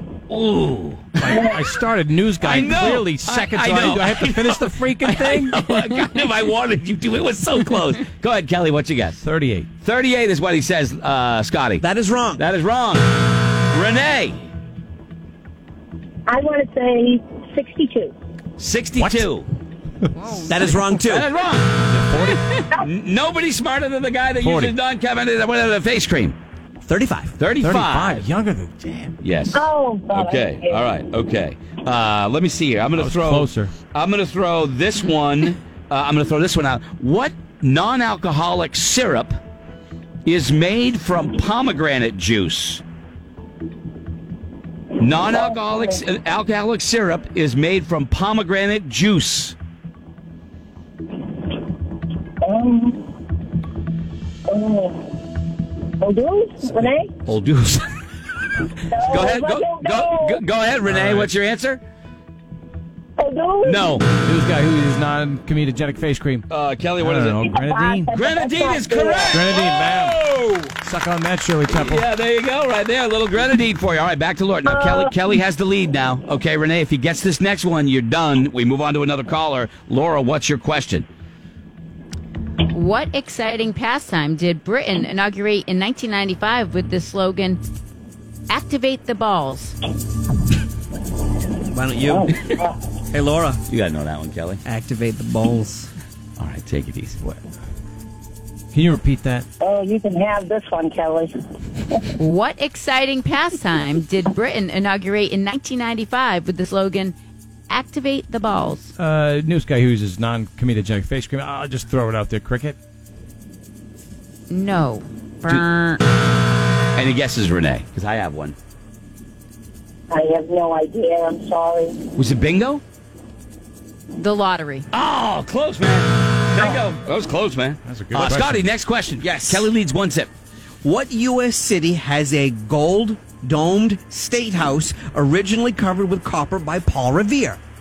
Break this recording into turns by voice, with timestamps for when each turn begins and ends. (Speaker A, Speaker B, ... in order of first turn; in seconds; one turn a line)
Speaker A: 0.3-1.5
Speaker B: 1.2-5.9
Speaker C: 1.3-1.6
Speaker A: 2.4-9.2
Speaker B: 9.2-9.7
Speaker A: 9.8-11.9
Speaker D: 11.8-12.4
Speaker A: 12.4-14.5
Speaker C: 16.3-18.1
Speaker A: 18.6-19.5
Speaker B: 19.0-19.3
Speaker E: 20.1-20.8
Speaker D: 20.5-21.3
Speaker A: 21.1-21.7
Speaker B: 21.8-22.5
Speaker A: 22.3-26.4
Speaker B: 24.4-24.8
Speaker D: 26.9-27.3
Speaker A: 27.4-28.3
Speaker B: 27.6-29.1
Speaker A: 29.2-39.4
Speaker C: 29.5-30.9
Speaker B: 32.9-33.7
Speaker A: 40.2-42.8
Speaker A: 45.0-49.6
Speaker C: 52.4-53.1
Speaker C: 54.5-55.2
Speaker C: 56.0-57.1
Speaker A: 57.3-57.9
Speaker C: 58.9-60.4
Speaker A: 59.0-61.8
Speaker B: 60.9-61.3
Speaker C: 63.2-64.0
Speaker A: 63.6-64.0
Speaker B: 64.2-66.4
Speaker A: 66.5-67.5
Speaker B: 67.0-68.1
Speaker C: 67.4-69.4
Speaker A: 68.1-70.7
Speaker B: 69.3-70.2
Speaker B: 70.8-72.1
Speaker A: 71.7-81.1
Speaker C: 74.7-75.0
Speaker E: 82.7-87.6
Speaker E: 88.5-89.8
Speaker D: 91.7-92.3
Speaker C: 92.1-92.6
Speaker D: 93.1-93.6
Speaker A: 93.7-94.6
Speaker D: 94.7-95.9
Speaker A: 96.4-97.2
Speaker B: 98.7-99.5
Speaker C: 99.6-101.3
Speaker E: 102.2-107.2
Speaker E: 107.7-108.9
Speaker B: 109.0-112.8
Speaker E: 114.5-116.0
Speaker A: 117.0-118.6
Speaker C: 120.1-122.0
Speaker A: 122.2-122.8
Speaker E: 124.2-124.9
Speaker A: 124.9-130.3
Speaker B: 127.8-128.7
Speaker D: 129.2-129.7
Speaker D: 130.8-137.6